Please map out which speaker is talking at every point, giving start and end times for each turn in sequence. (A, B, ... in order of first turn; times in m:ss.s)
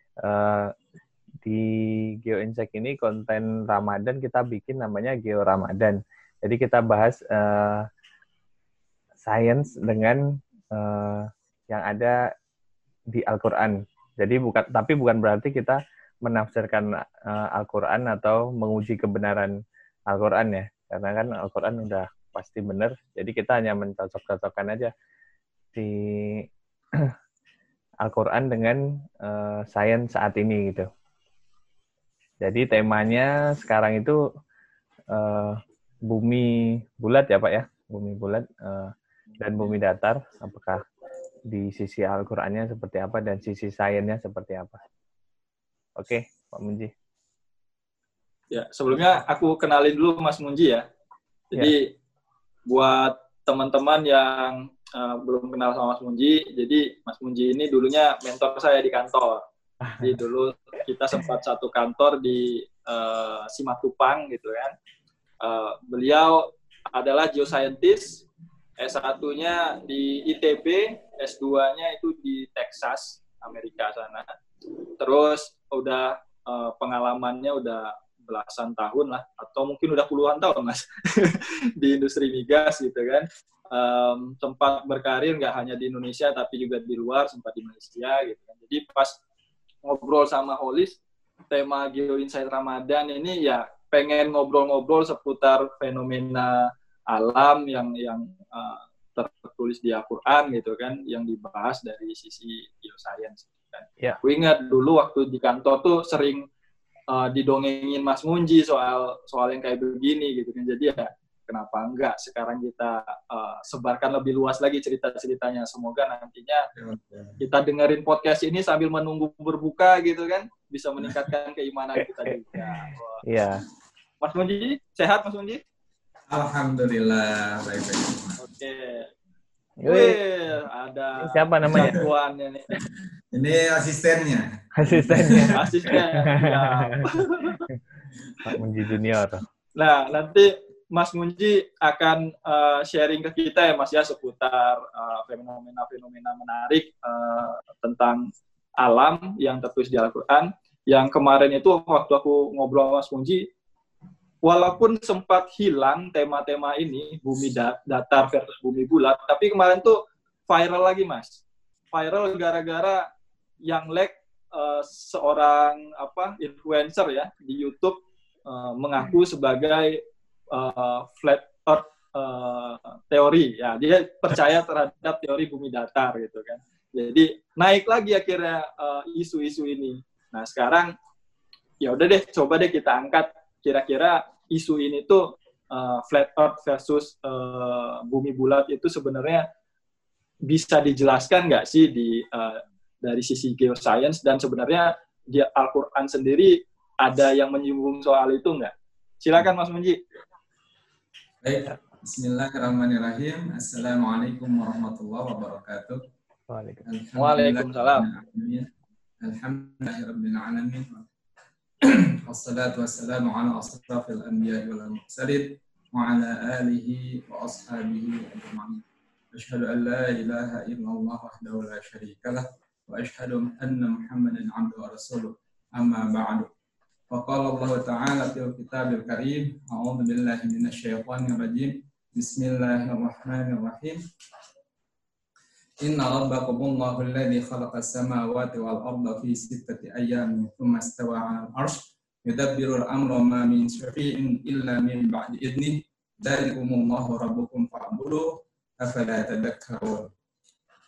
0:00.2-0:00.7 A
0:02.2-0:07.8 A
0:09.2-0:12.2 A
0:13.1-0:19.5 A
0:20.1-0:24.9 A
0:25.7-0:26.4 A
0:28.0-0:30.9 A
0:32.4-0:34.2 A
0:35.1-0:40.8 A
0:41.5-0:44.8 A
0:46.0-0:46.9 A
0:48.5-0:50.8 B
0:51.5-0:51.9 B
0:52.6-0:59.4 B
0:59.8-1:00.2 A
1:00.0-1:04.7 B
1:05.4-1:08.2 B
1:08.8-1:14.3 B
1:14.8-1:29.2 B
1:29.8-1:31.0 B
1:31.5-1:46.5 B
1:47.1-1:56.6 B
1:56.7-1:57.4 C
1:57.4-2:03.2 B
2:01.0-2:01.3 C
2:02.0-2:03.6 A
2:04.2-2:05.6 B
2:06.3-2:08.4 C
2:08.4-2:09.1 B
2:09.8-2:10.2 A
2:09.8-2:12.8 B
2:11.2-2:12.0 A
2:11.7-2:12.0 C
2:13.3-2:16.0 C
2:14.8-2:17.1 A
2:15.3-2:17.6 B
2:18.4-2:19.4 A
2:19.8-2:33.5 B
2:34.4-2:41.4 B
2:41.9-2:43.0 B
2:43.6-2:50.0 B
2:50.5-3:00.9 B
3:01.8-3:09.4 B
3:10.4-3:20.0 B
3:21.4-3:26.0 C
3:26.5-3:26.8 A
3:26.8-3:28.7 C
3:27.2-3:28.1 B
3:29.2-3:31.1 C
3:31.8-3:46.5 C
3:47.1-3:54.0 C
3:55.8-4:10.1 C